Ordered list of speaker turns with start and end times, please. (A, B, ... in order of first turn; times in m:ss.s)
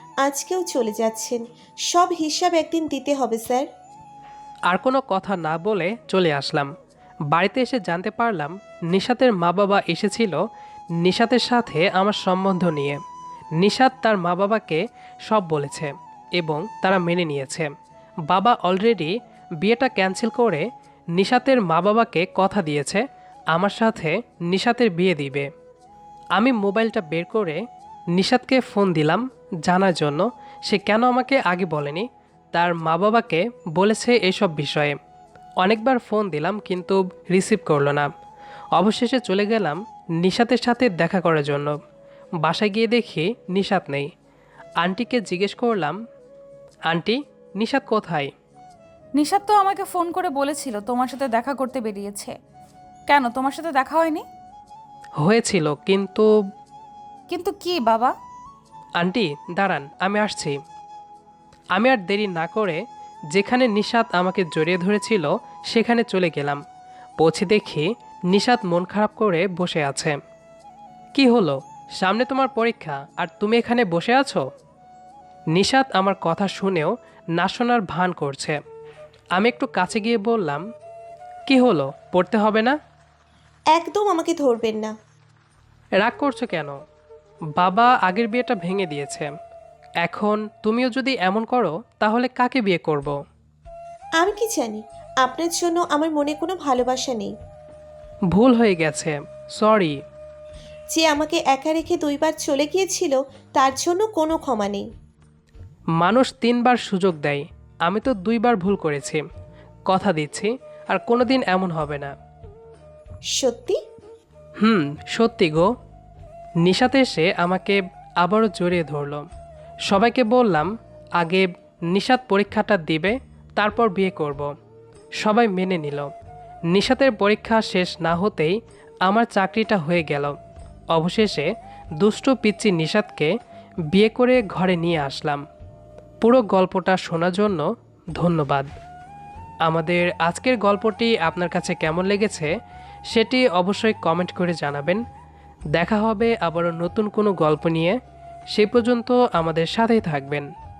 0:00.2-0:03.7 A
0:04.7-0:06.7 B
0:07.3-0:10.4 B
0:11.0-0:13.0 B
0:13.6-0:17.7 B
0:18.3-0:25.5 B
0:26.4-0:27.6 B
0:28.1-0:35.0 B
0:35.6-0:38.1 B
0:38.8-0:41.8 B
0:42.4-0:44.1 B
0:44.8-0:46.0 B
0:46.9-0:48.3 B
0:49.2-0:52.3 C
0:53.1-0:54.2 C
0:55.2-0:56.3 B
0:57.3-0:58.1 C
0:59.0-1:00.6 B
1:01.7-1:06.6 B
1:07.2-1:10.2 B
1:11.2-1:14.4 B
1:15.5-1:18.6 B
1:19.4-1:20.6 B
1:21.5-1:22.8 B
1:23.7-1:24.9 A
1:26.0-1:26.8 B
1:27.6-1:29.3 B
1:30.0-1:33.2 B
1:34.2-1:37.3 A
1:38.3-1:40.0 B
1:40.9-1:44.9 A
1:46.0-1:49.2 B
1:49.9-1:52.1 B
1:53.4-1:53.8 A
1:54.6-1:55.7 B
1:56.6-1:59.3 B
1:59.9-2:04.5 B
2:05.2-2:06.1 B
2:06.7-2:08.6 B
2:09.1-2:10.4 B
2:10.9-2:11.5 B
2:12.0-2:13.3 B
2:13.9-2:15.4 B
2:16.2-2:17.6 B
2:18.2-2:18.7 B
2:19.6-2:22.5 B
2:23.1-2:25.0 B
2:25.7-2:28.0 B
2:28.5-2:30.5 B